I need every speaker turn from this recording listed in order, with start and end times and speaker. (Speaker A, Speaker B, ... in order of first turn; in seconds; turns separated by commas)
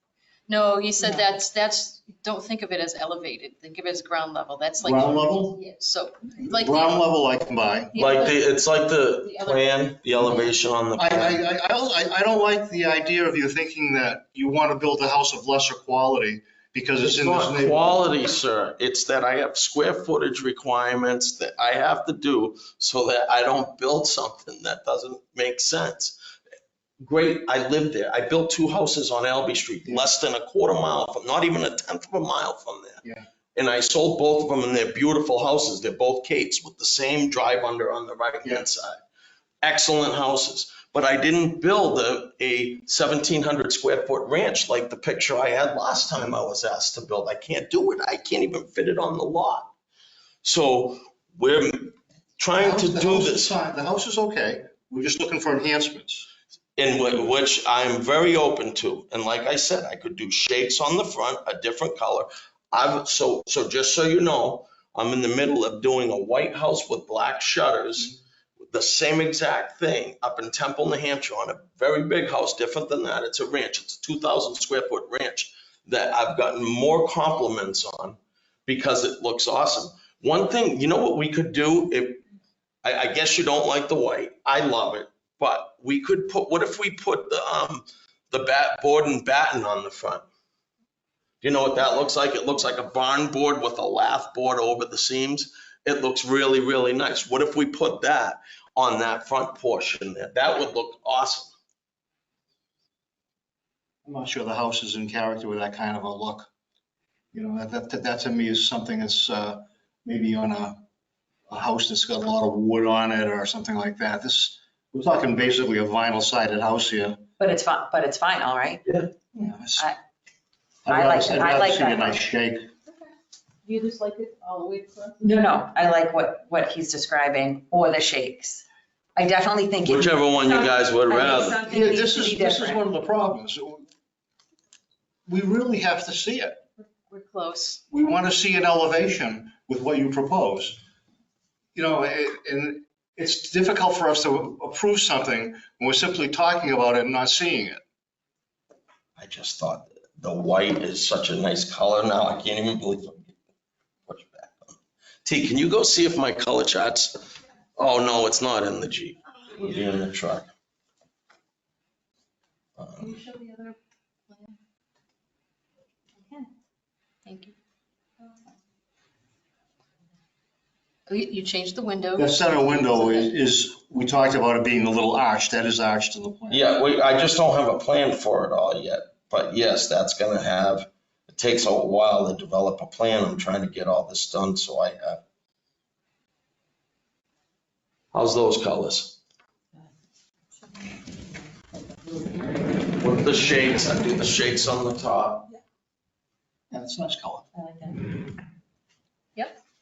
Speaker A: 0.5-7.0, Speaker B: 4.8-5.6, Speaker B: 6.4-7.9, Speaker A: 7.9-8.3, Speaker C: 8.0-11.4, Speaker A: 9.2-9.8, Speaker B: 11.0-18.0, Speaker C: 17.1-26.1, Speaker C: 27.0-33.0, Speaker C: 33.5-39.0, Speaker C: 39.6-49.7, Speaker C: 50.4-53.5, Speaker B: 52.6-56.3, Speaker C: 56.8-82.2, Speaker C: 82.8-90.2, Speaker C: 91.4-101.5, Speaker B: 104.0-106.5, Speaker B: 107.3-110.8, Speaker B: 111.5-117.2, Speaker D: 117.4-118.8, Speaker B: 119.3-119.9, Speaker B: 120.8-122.7, Speaker D: 120.9-122.2, Speaker A: 123.6-125.2, Speaker D: 125.2-128.6, Speaker D: 129.2-132.8, Speaker C: 129.8-131.6, Speaker B: 131.6-133.8, Speaker B: 135.2-136.6, Speaker A: 137.1-137.8, Speaker B: 137.9-140.8, Speaker B: 141.7-147.8, Speaker C: 149.2-153.3, Speaker C: 154.1-157.2, Speaker C: 157.8-160.5, Speaker C: 162.8-163.1, Speaker A: 163.0-163.8, Speaker A: 164.3-164.6, Speaker A: 167.2-167.5, Speaker A: 171.1-173.3, Speaker B: 172.2-176.7, Speaker C: 176.5-185.2, Speaker C: 188.1-189.2, Speaker C: 193.0-195.4, Speaker B: 196.7-197.4, Speaker D: 197.6-198.0